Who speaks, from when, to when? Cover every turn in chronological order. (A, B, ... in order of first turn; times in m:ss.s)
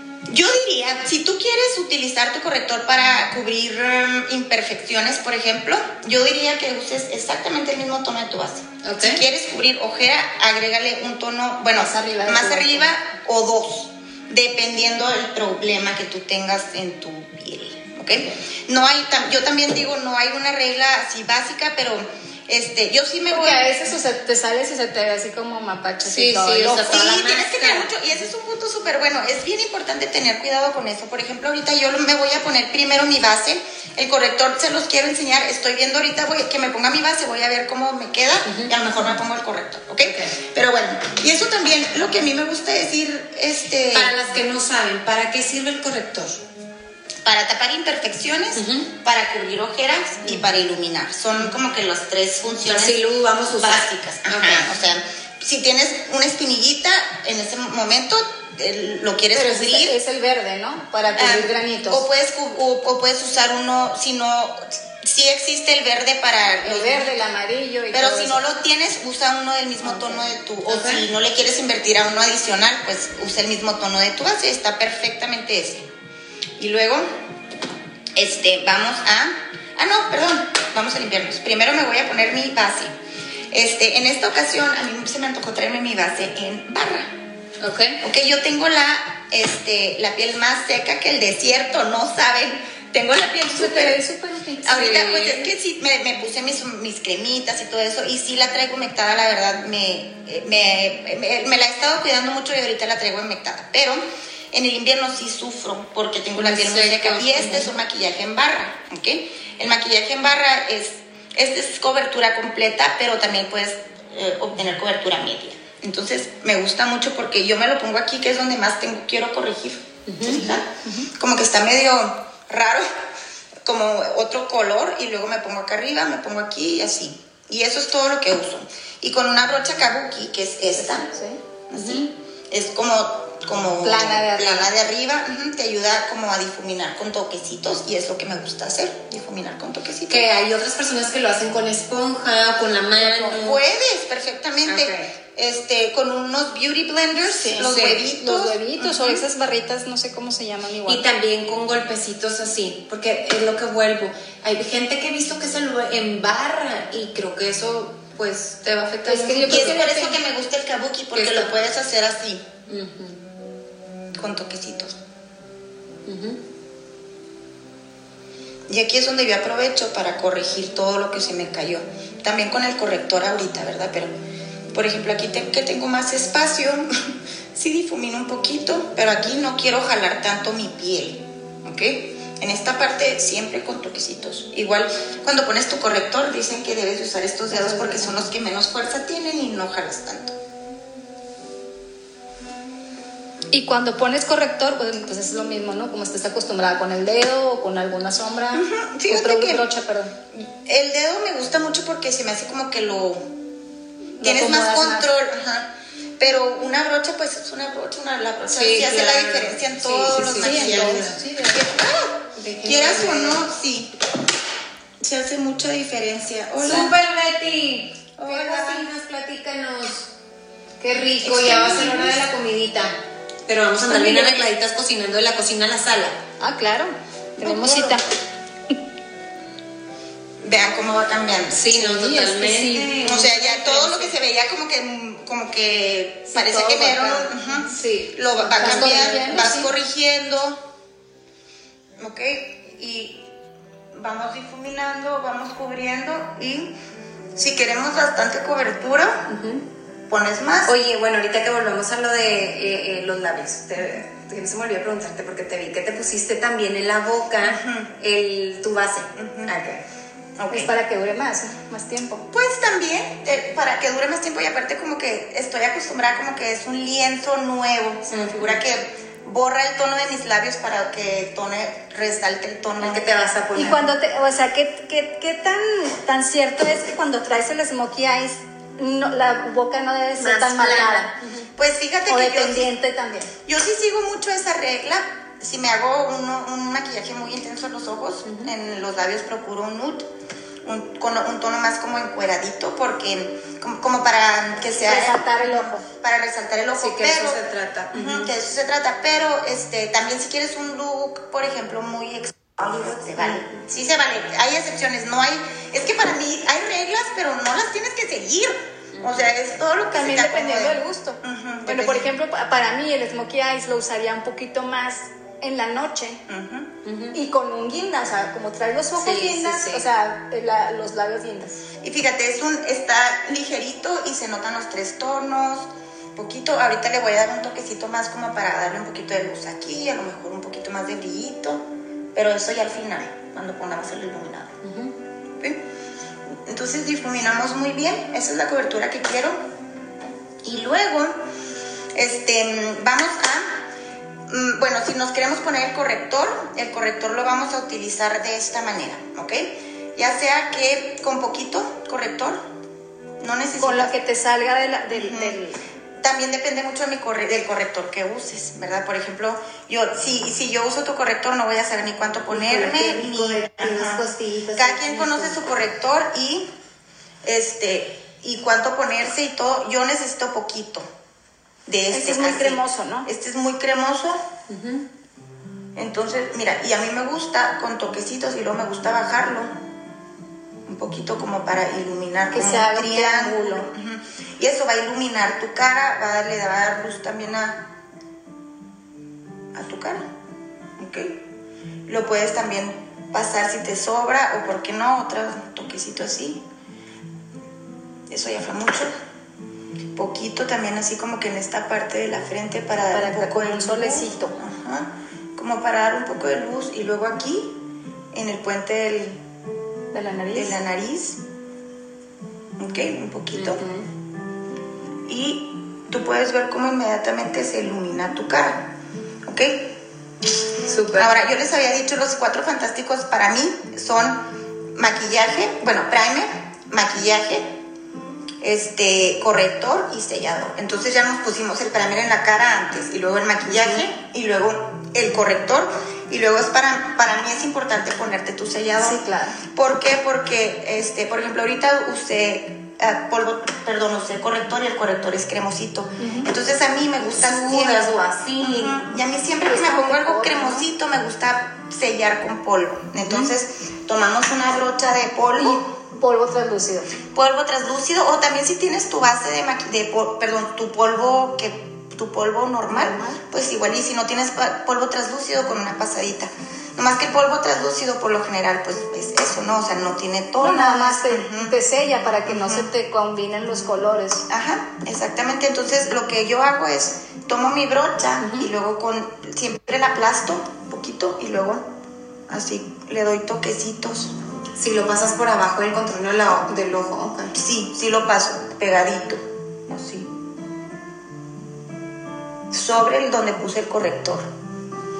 0:00.3-0:23.7 A
0:08.8-0:09.2 B
0:11.7-0:12.9 C
0:23.3-0:27.2 C
0:26.0-0:27.9 B
0:26.7-0:44.1 A
0:38.4-0:38.9 B
0:40.0-0:40.3 B
0:43.9-0:46.4 B
0:47.2-0:53.0 A
0:48.5-0:48.9 B
0:52.6-0:54.7 B
0:53.6-1:00.0 A
0:59.3-1:02.0 C
1:01.2-1:07.2 A
1:06.6-1:08.4 C
1:07.9-1:15.9 A
1:10.7-1:11.0 B
1:16.6-1:17.1 A
1:18.1-1:22.9 A
1:23.5-1:27.1 A
1:27.6-1:28.0 B
1:28.0-1:34.0 A
1:33.5-1:35.2 C
1:34.6-2:02.8 A
1:34.8-1:35.4 B
1:46.4-1:47.7 B
2:00.1-2:00.6 B
2:03.6-2:11.1 A
2:10.8-2:11.4 C
2:11.7-2:20.2 A
2:11.8-2:12.0 B
2:13.8-2:14.7 C
2:20.1-2:23.6 B
2:23.0-2:23.3 C
2:23.3-2:29.2 A
2:24.7-2:25.1 B
2:27.3-2:31.0 C
2:27.6-2:28.0 B
2:30.8-2:39.9 B
2:39.0-2:40.2 C
2:39.4-2:42.5 A
2:41.1-2:41.5 B
2:42.7-2:43.2 B
2:44.1-2:45.0 A
2:46.0-2:46.4 B
2:48.7-2:54.1 A
2:54.7-3:10.3 A
3:07.6-3:08.0 C
3:13.5-3:20.2 C
3:18.5-3:19.7 A
3:20.3-3:23.3 A
3:24.2-3:25.1 C
3:24.2-3:33.9 A
3:28.5-3:31.2 B
3:30.2-3:31.6 C
3:32.4-3:33.4 B
3:35.0-3:36.9 A
3:36.6-3:40.1 B
3:38.2-3:38.8 A
3:40.8-3:42.9 B
3:41.2-3:42.2 A
3:43.5-3:46.2 B
3:43.9-3:44.4 C
3:46.4-3:48.0 C
3:47.4-3:48.0 A
3:50.4-3:51.8 A
3:51.5-3:54.2 B
3:51.8-3:53.0 C
3:53.0-4:00.6 A
3:56.3-3:59.7 C
3:58.4-3:59.5 B
4:02.0-4:03.3 A
4:03.9-4:06.8 A
4:07.3-4:09.2 A
4:09.3-4:09.6 B
4:10.1-4:10.8 A
4:10.6-4:19.8 B
4:17.4-4:17.9 A
4:19.2-4:19.5 A
4:20.4-4:20.7 A
4:20.5-4:22.3 C
4:22.3-4:33.1 A
4:28.1-4:28.6 B
4:32.8-4:33.9 B
4:33.6-4:41.2 C
4:40.2-4:41.5 B
4:41.6-4:42.7 A
4:42.1-4:43.3 C
4:43.4-4:50.1 A
4:48.2-4:48.5 B
4:50.6-5:12.1 A
4:54.7-4:55.8 C
4:56.7-4:58.3 B
5:08.9-5:09.3 B
5:09.9-5:16.2 C
5:16.3-5:16.7 A
5:16.8-5:17.1 B
5:17.1-5:21.6 C
5:19.0-5:19.8 B
5:21.8-5:34.6 A
5:34.6-5:34.9 B
5:35.4-5:35.6 A
5:36.4-5:39.4 A
5:40.4-5:41.2 A
5:41.9-5:43.6 A
5:44.3-5:52.4 A
5:53.2-5:53.9 A
5:53.6-5:55.6 C
5:54.9-5:55.4 A
5:56.0-6:04.0 A
6:02.3-6:05.4 B
6:04.5-6:06.5 A
6:07.2-6:10.8 A
6:11.6-6:14.2 A
6:11.9-6:13.1 C
6:14.5-6:14.8 B
6:15.8-6:19.5 A
6:20.6-6:27.7 A
6:22.3-6:23.7 C
6:29.5-6:30.1 A
6:30.8-6:31.2 A
6:31.8-6:36.4 A
6:38.1-6:38.9 A
6:39.9-6:47.6 A
6:42.9-6:44.4 C
6:48.1-6:49.2 A
6:49.9-6:50.6 C
6:50.3-6:51.2 A
6:52.6-6:53.6 A
6:53.3-6:53.8 B
6:55.1-6:58.7 A
6:59.2-6:59.8 A
7:00.6-7:01.2 B
7:00.9-7:07.6 A
7:08.4-7:35.6 A
7:18.8-7:19.4 C
7:26.0-7:26.3 C
7:27.1-7:28.8 B
7:29.4-7:30.7 C
7:35.4-7:36.9 C
7:37.1-7:51.5 A
7:42.7-7:43.2 C
7:50.4-7:54.3 C
7:52.3-7:52.7 A
7:54.3-8:01.7 A
7:58.2-7:58.5 B
8:02.3-8:04.1 A
8:04.6-8:07.3 B
8:07.3-8:10.1 A
8:12.5-8:14.3 A